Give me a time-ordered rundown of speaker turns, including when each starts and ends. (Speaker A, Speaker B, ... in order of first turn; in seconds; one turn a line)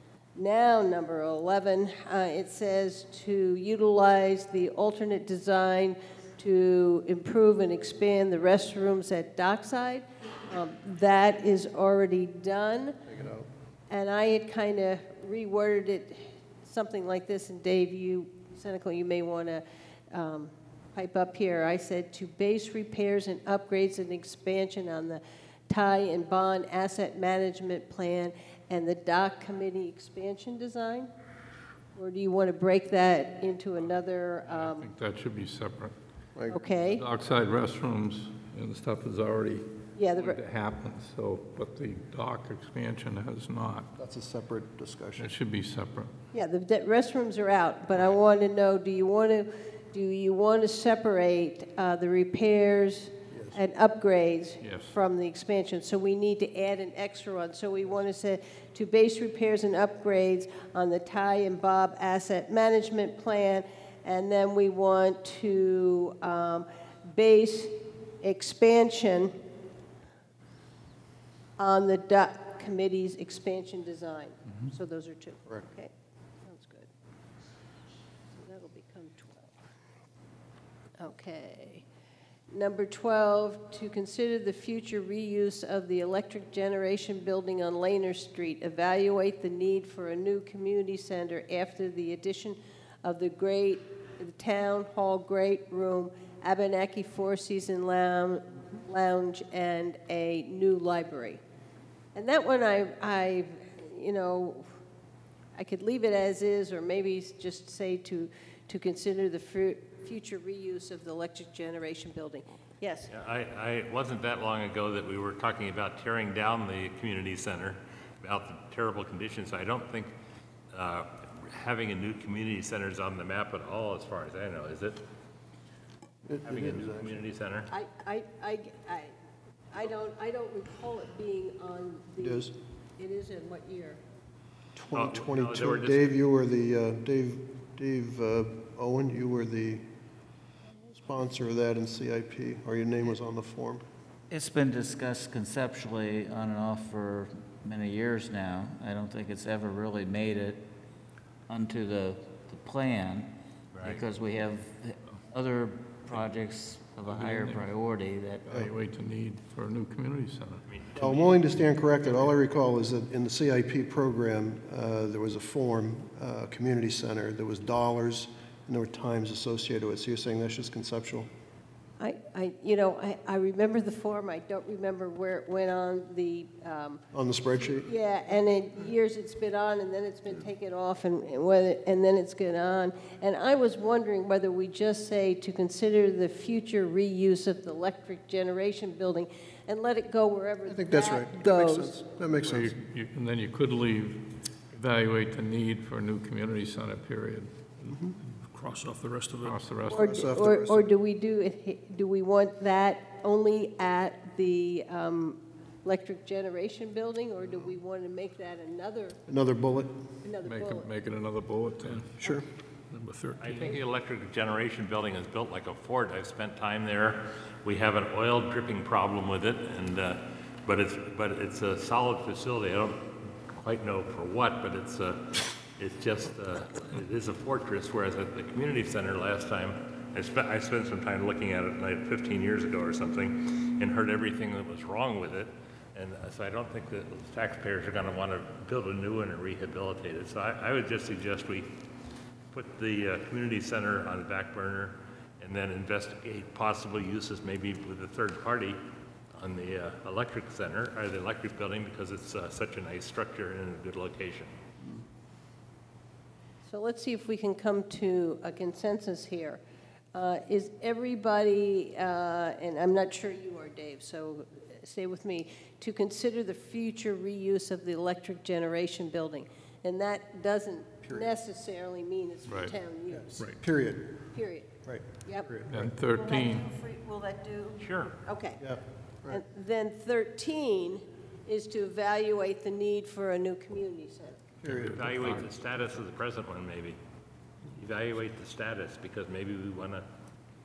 Speaker A: 0.3-13.0
Speaker B: 13.1-13.5
Speaker A: 13.9-31.1
Speaker A: 31.9-34.9
Speaker C: 34.5-35.9
Speaker B: 36.4-36.6
Speaker A: 36.5-37.0
Speaker C: 36.8-43.9
Speaker A: 40.0-40.4
Speaker B: 44.0-45.3
Speaker C: 45.2-46.1
Speaker A: 46.3-69.3
Speaker B: 53.3-53.6
Speaker C: 54.6-55.0
Speaker A: 71.6-75.9
Speaker A: 76.4-76.9
Speaker A: 78.4-79.5
Speaker A: 81.0-81.8
Speaker A: 82.5-101.4
Speaker A: 102.1-104.7
Speaker A: 105.5-113.1
Speaker D: 113.1-120.1
Speaker D: 120.7-125.0
Speaker B: 126.2-127.2
Speaker D: 126.5-127.7
Speaker A: 127.7-129.1
Speaker A: 129.7-134.0
Speaker B: 132.2-132.5
Speaker B: 134.7-139.8
Speaker D: 134.9-136.1
Speaker B: 140.9-143.8
Speaker E: 144.3-150.7
Speaker E: 151.5-158.4
Speaker D: 153.7-154.0
Speaker C: 157.1-157.7
Speaker C: 158.4-160.6
Speaker D: 160.7-161.3
Speaker B: 161.0-171.3
Speaker A: 172.0-177.0
Speaker B: 177.1-177.9
Speaker A: 177.8-192.0
Speaker B: 190.7-192.8
Speaker C: 192.4-197.9
Speaker B: 197.9-198.2
Speaker F: 198.2-199.7
Speaker C: 199.4-200.4
Speaker A: 199.9-209.2
Speaker B: 200.0-200.9
Speaker B: 209.3-209.9
Speaker A: 210.2-210.9
Speaker C: 210.4-212.2
Speaker B: 212.2-212.4
Speaker F: 212.9-213.7
Speaker D: 213.4-241.7
Speaker D: 242.5-248.8
Speaker D: 249.3-254.5
Speaker A: 256.6-259.6
Speaker A: 260.1-273.4
Speaker C: 272.5-272.7
Speaker B: 273.1-274.3
Speaker A: 274.3-275.5
Speaker B: 274.8-275.9
Speaker C: 275.7-276.7
Speaker A: 276.1-278.6
Speaker D: 277.8-278.2
Speaker B: 278.6-279.4
Speaker A: 279.3-284.4
Speaker B: 284.6-285.4
Speaker C: 284.7-285.2
Speaker D: 284.7-287.0
Speaker D: 287.8-290.0